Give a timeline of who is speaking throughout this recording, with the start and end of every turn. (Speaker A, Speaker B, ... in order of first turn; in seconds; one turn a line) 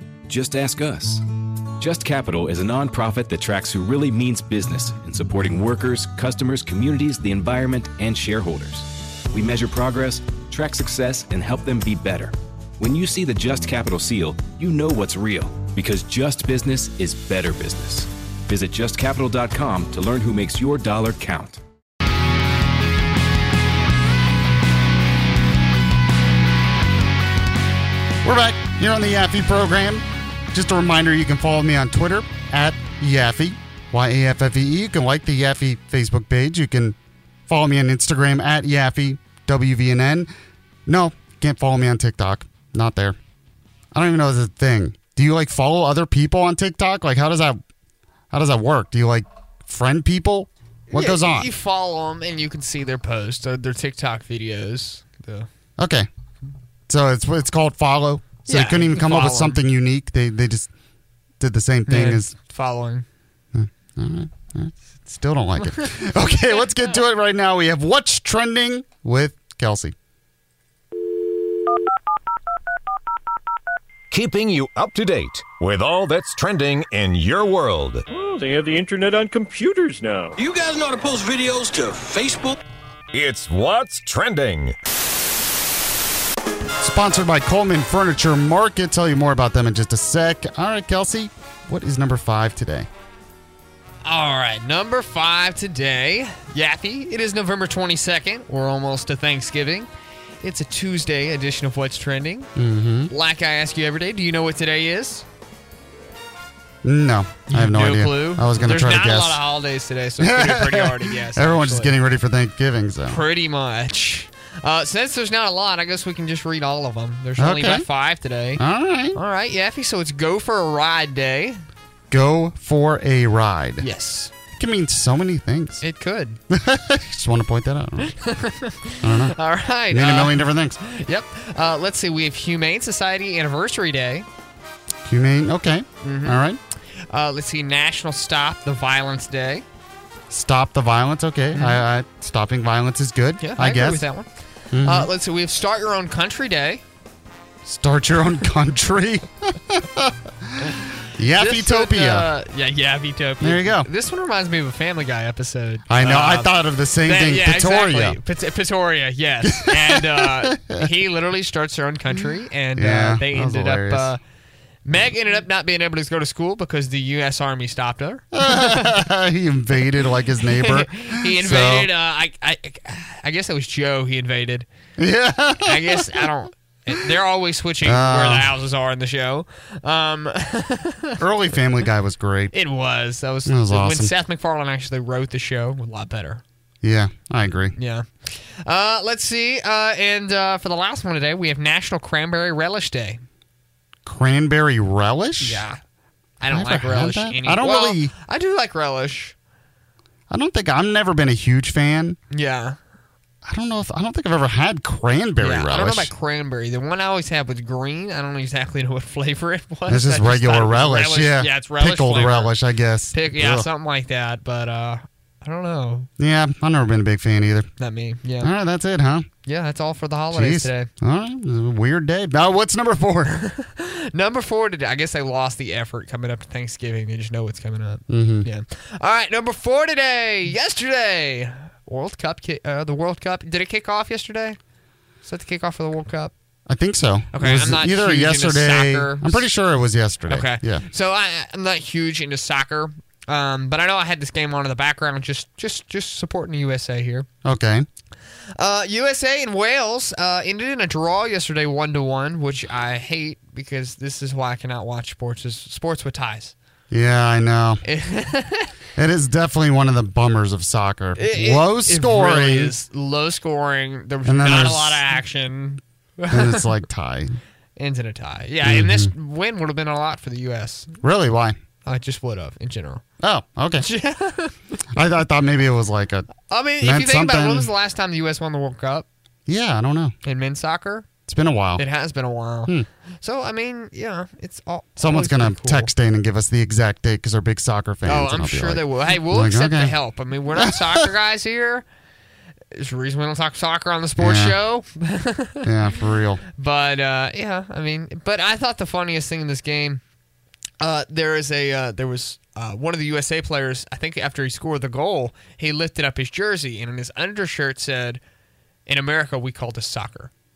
Speaker A: 0.3-1.2
Speaker A: 1.8-21.6
Speaker B: 28.2-37.0
Speaker B: 37.5-40.3
Speaker B: 40.9-43.2
Speaker B: 43.9-47.6
Speaker B: 48.3-51.5
Speaker C: 50.9-55.5
Speaker B: 55.8-56.1
Speaker B: 56.9-60.7
Speaker C: 58.5-59.6
Speaker B: 61.4-62.3
Speaker C: 61.9-63.1
Speaker B: 63.5-69.9
Speaker D: 74.1-78.0
Speaker E: 78.1-80.5
Speaker F: 80.4-82.6
Speaker D: 83.1-84.8
Speaker B: 86.8-92.9
Speaker C: 94.0-99.9
Speaker C: 100.4-102.5
Speaker B: 102.6-103.1
Speaker C: 103.1-105.3
Speaker B: 106.8-109.4
Speaker C: 107.5-112.0
Speaker B: 110.2-113.2
Speaker C: 113.1-118.6
Speaker B: 117.4-117.9
Speaker B: 118.6-119.2
Speaker C: 119.1-121.6
Speaker B: 122.1-123.9
Speaker C: 123.8-124.3
Speaker B: 124.5-125.8
Speaker C: 125.8-126.4
Speaker B: 126.5-128.1
Speaker C: 128.0-134.3
Speaker B: 129.0-129.4
Speaker B: 129.9-130.8
Speaker B: 135.1-136.6
Speaker C: 136.0-136.4
Speaker C: 137.1-139.7
Speaker B: 140.3-144.1
Speaker C: 141.5-141.8
Speaker C: 143.4-144.3
Speaker B: 144.7-145.1
Speaker C: 144.8-146.8
Speaker B: 147.7-152.3
Speaker C: 151.3-164.2
Speaker B: 153.4-153.9
Speaker B: 155.9-158.2
Speaker B: 159.4-160.9
Speaker B: 162.8-164.1
Speaker C: 164.8-169.1
Speaker B: 168.3-171.9
Speaker C: 170.4-174.7
Speaker B: 175.0-176.3
Speaker C: 175.6-181.2
Speaker B: 177.8-178.6
Speaker B: 181.2-182.5
Speaker C: 182.5-186.4
Speaker B: 183.5-184.1
Speaker B: 186.8-187.8
Speaker C: 187.8-193.2
Speaker B: 194.1-195.7
Speaker C: 195.4-195.8
Speaker C: 196.4-199.3
Speaker B: 196.5-198.1
Speaker B: 200.3-202.2
Speaker C: 202.3-202.8
Speaker B: 203.4-206.1
Speaker C: 205.4-212.6
Speaker B: 209.9-213.7
Speaker C: 213.1-216.1
Speaker B: 216.2-217.7
Speaker C: 217.8-218.5
Speaker B: 218.4-219.3
Speaker C: 219.5-220.9
Speaker B: 220.3-223.4
Speaker C: 223.4-234.6
Speaker B: 228.1-228.5
Speaker C: 235.2-236.3
Speaker B: 236.7-240.8
Speaker C: 237.3-239.5
Speaker C: 240.3-247.3
Speaker B: 247.4-247.9
Speaker C: 248.6-256.6
Speaker B: 256.9-257.8
Speaker C: 257.8-258.7
Speaker B: 259.0-262.7
Speaker C: 261.2-266.7
Speaker B: 264.2-265.0
Speaker B: 266.3-267.4
Speaker C: 267.8-270.9
Speaker B: 268.6-269.1
Speaker B: 271.0-271.6
Speaker C: 271.9-273.0
Speaker B: 273.2-273.9
Speaker C: 273.8-274.6
Speaker B: 275.0-276.3
Speaker C: 276.5-279.1
Speaker B: 276.8-277.7
Speaker B: 279.5-280.1
Speaker C: 280.2-281.1
Speaker B: 281.3-281.8
Speaker C: 281.8-285.9
Speaker B: 285.0-290.0
Speaker C: 288.1-291.9
Speaker B: 290.6-291.1
Speaker C: 292.7-295.7
Speaker B: 294.2-294.6
Speaker B: 295.6-296.4
Speaker C: 296.6-300.0
Speaker C: 300.8-308.2
Speaker C: 308.9-310.3